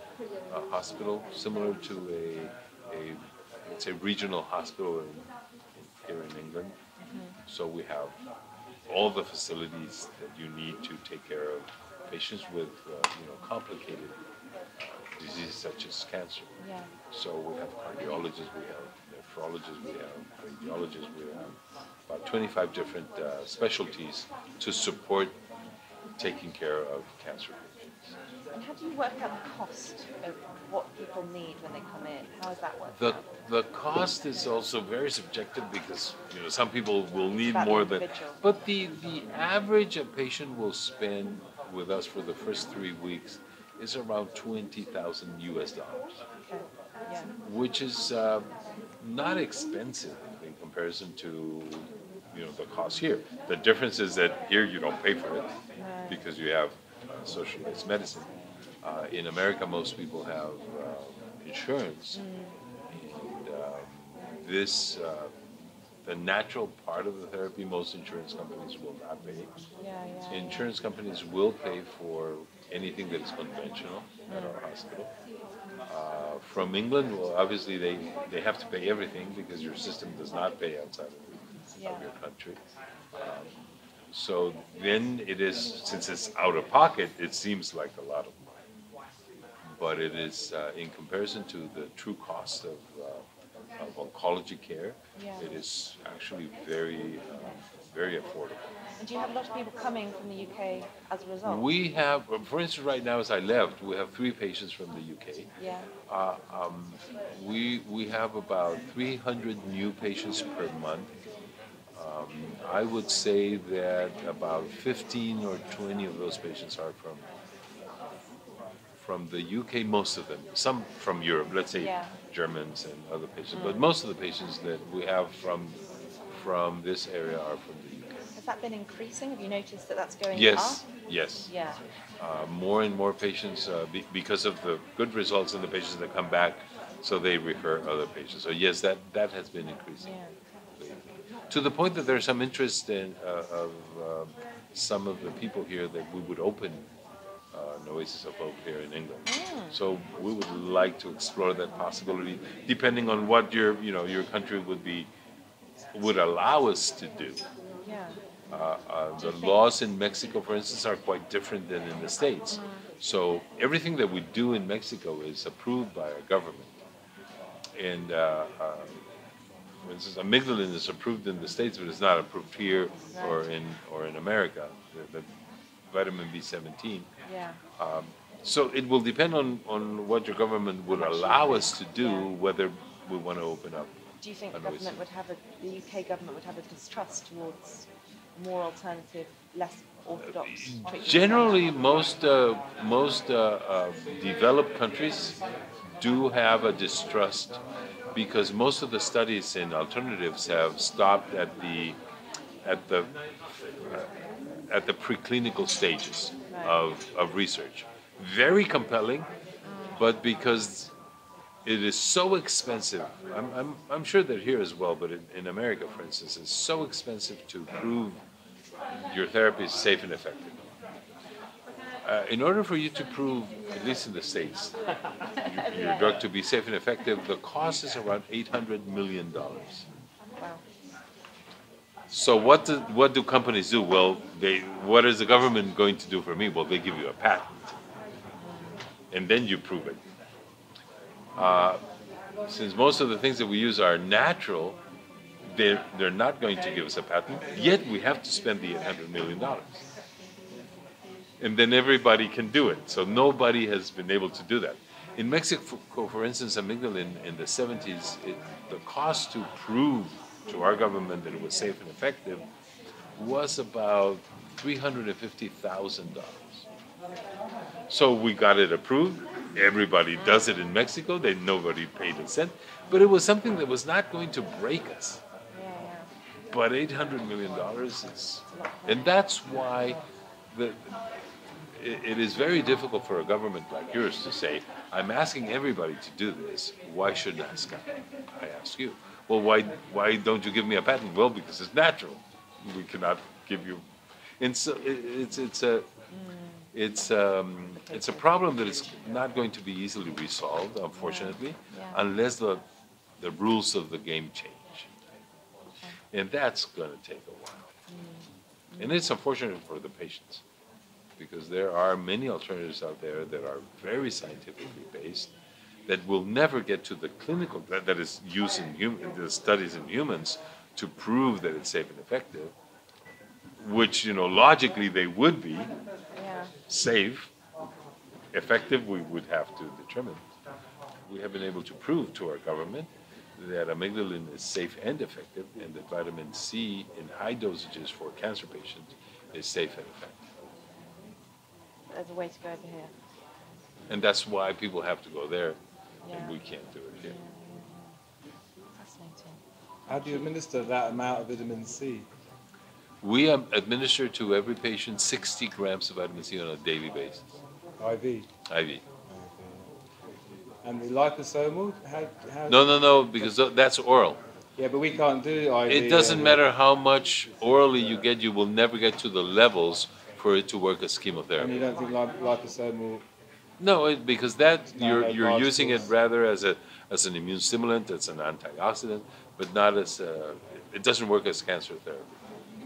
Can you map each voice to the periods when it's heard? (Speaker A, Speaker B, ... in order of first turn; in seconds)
Speaker A: 0.5-5.2, 5.8-6.8, 7.5-8.2, 8.9-14.2, 14.8-16.5, 17.1-25.4, 26.2-28.1, 32.9-46.2, 47.5-48.5, 49.0-55.5, 56.1-58.3, 58.8-62.2, 62.9-65.3, 66.0-69.5, 70.3-75.1, 75.9-82.6, 83.2-83.5, 84.1-88.6, 89.8-93.2, 93.8-98.7, 101.4-105.5, 106.1-111.1, 112.0-117.2, 119.0-125.8, 126.3-128.2, 130.3-131.5, 132.2-140.1, 140.8-146.9, 147.5-155.1, 155.9-157.4, 158.5-166.8, 167.8-169.0, 169.8-175.3, 175.9-177.1, 177.8-183.9, 184.5-185.0, 190.3-195.4, 196.0-197.6, 198.1-202.0, 202.6-203.1, 203.8-204.1, 204.7-209.3, 210.0-210.9, 211.7-218.2, 219.1-220.6, 222.0-224.7, 225.4-229.8, 232.1-237.8, 239.1-240.0, 241.4-241.8, 242.5-244.8, 245.5-249.9, 251.4-262.4, 263.2-266.6, 267.9-275.2, 276.5-280.0, 280.5-281.0, 281.8-293.8, 294.4-295.9, 296.7-302.6, 303.2-304.9, 306.1-307.7, 308.8-310.4, 311.2-315.3, 315.9-322.5, 323.6-325.7, 326.6-327.3, 328.3-330.2, 331.1-340.3, 343.9-345.6, 346.1-347.2, 353.0-357.3, 358.5-358.8, 362.5-364.2, 365.7-371.6, 373.6-382.2
Speaker B: 7.0-7.4, 16.6-16.9, 28.5-33.3, 37.3-38.4, 46.5-47.3, 55.8-56.2, 62.1-62.6, 69.8-70.7, 74.3-74.5, 81.8-82.1, 95.2-95.5, 99.0-101.7, 105.6-105.9, 121.8-122.2, 123.5-123.9, 128.4-130.8, 131.4-131.8, 140.0-140.3, 149.3-149.8, 157.8-158.2, 159.2-159.8, 162.5-162.8, 173.1-173.4, 177.2-177.6, 180.9-182.3, 184.2-191.7, 206.5-206.8, 209.7-210.0, 225.4-226.3, 238.4-238.8, 270.2-270.5, 275.5-276.1, 278.5-279.2, 296.1-296.7, 297.7-298.3, 300.9-302.0, 307.9-309.1, 326.2-326.6, 341.9-342.9, 346.1-346.4, 347.0-348.0, 348.8-350.3
Speaker C: 349.9-352.1, 357.8-358.3, 359.1-359.7, 360.6-363.4, 364.6-366.4, 371.4-373.1, 374.7-375.9